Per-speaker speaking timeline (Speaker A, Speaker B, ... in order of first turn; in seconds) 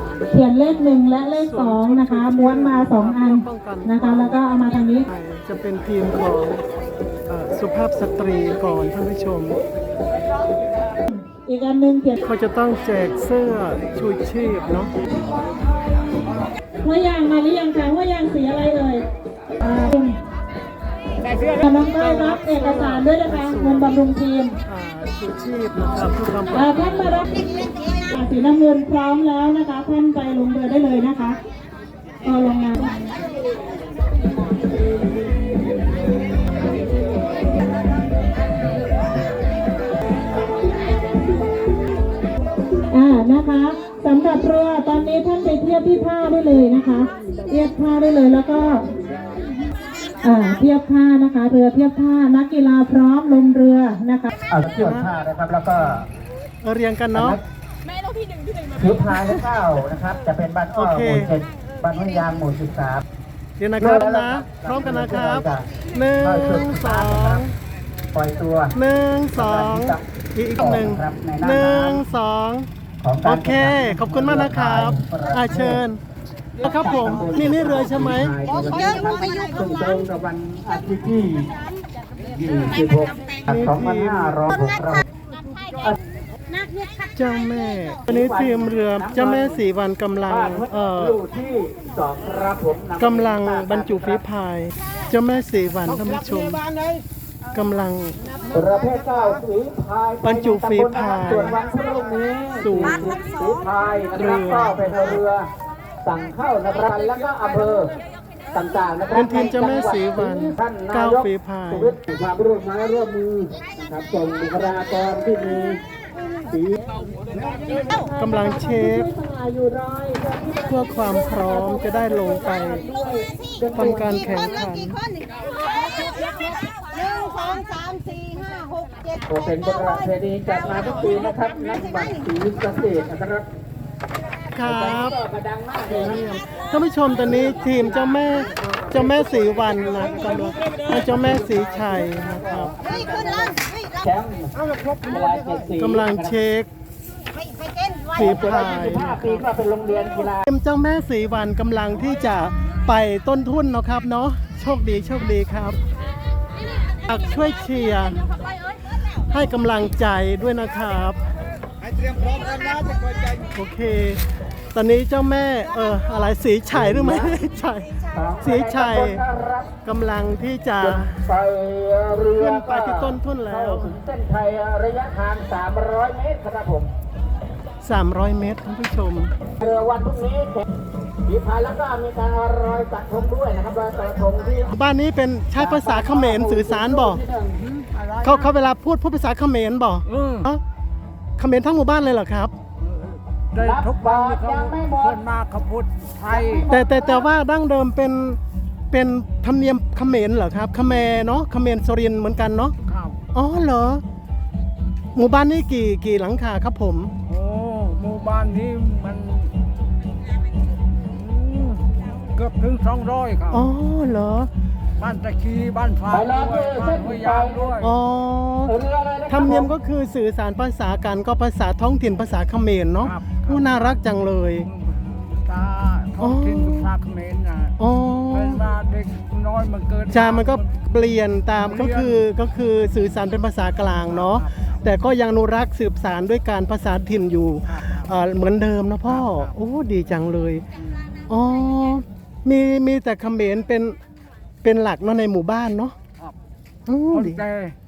Speaker A: 0.3-5.1, 11.1-12.2, 16.8-19.0, 19.6-20.2, 21.6-24.5, 26.5-31.4, 32.2-33.0, 42.9-48.8, 50.2-54.3, 117.7-124.3
Speaker B: 1.4-4.4, 5.1-6.6, 7.3-9.6, 12.2-14.9, 21.8-24.0, 24.6-27.2, 54.8-55.1, 56.6-57.4, 60.7-61.3, 63.6-67.5, 68.7-72.7, 73.2-76.0, 76.6-78.3, 83.5-84.4, 87.1-91.2, 93.0-96.7, 97.5-98.2, 100.2-101.6, 102.6-103.2, 104.1-105.2, 109.1-112.0, 118.2-119.1, 120.7-122.8, 123.7-125.0, 134.5-135.2, 135.8-142.8, 145.8-146.7, 148.1-149.4, 150.4-155.8, 157.1-158.2, 159.3-161.2, 163.5-169.2, 169.8-171.2, 172.4-173.9, 177.8-179.3, 184.7-187.2, 188.2-190.6, 191.4-192.5, 196.7-198.4, 198.9-202.8, 203.3-204.0, 205.1-207.1, 213.5-214.5, 217.8-218.7, 219.3-224.7, 226.2-226.9, 227.8-228.6, 230.1-240.6, 241.3-244.0, 244.6-245.9, 246.9-247.4
Speaker C: 21.2-21.6, 187.7-188.5, 190.1-190.5, 192.8-196.6, 202.8-203.2, 207.2-209.5, 211.1-213.7, 215.0-217.9, 223.0-224.0, 224.6-227.7, 228.3-230.7, 231.5-232.2, 234.0-234.7, 237.7-238.1, 239.1-239.5, 247.1-247.7
Speaker D: 54.5-56.1, 57.1-57.4, 58.8-63.0, 63.8-65.7, 66.2-67.5, 68.1-68.7, 69.3-70.0, 70.5-72.0, 73.0-75.8, 76.6-81.5, 82.3-85.1, 88.1-89.6, 90.3-94.2, 98.5-105.5, 106.0-107.9, 108.5-115.8, 116.5-117.5, 129.2-133.5, 134.6-136.3, 142.6-146.3, 148.1-150.4, 166.7-167.4, 168.1-169.7, 170.8-176.9, 179.6-180.7, 181.2-184.7, 185.5-187.6, 193.6-195.2, 196.2-197.3, 216.1-217.8, 218.6-219.7
Speaker E: 127.0-129.1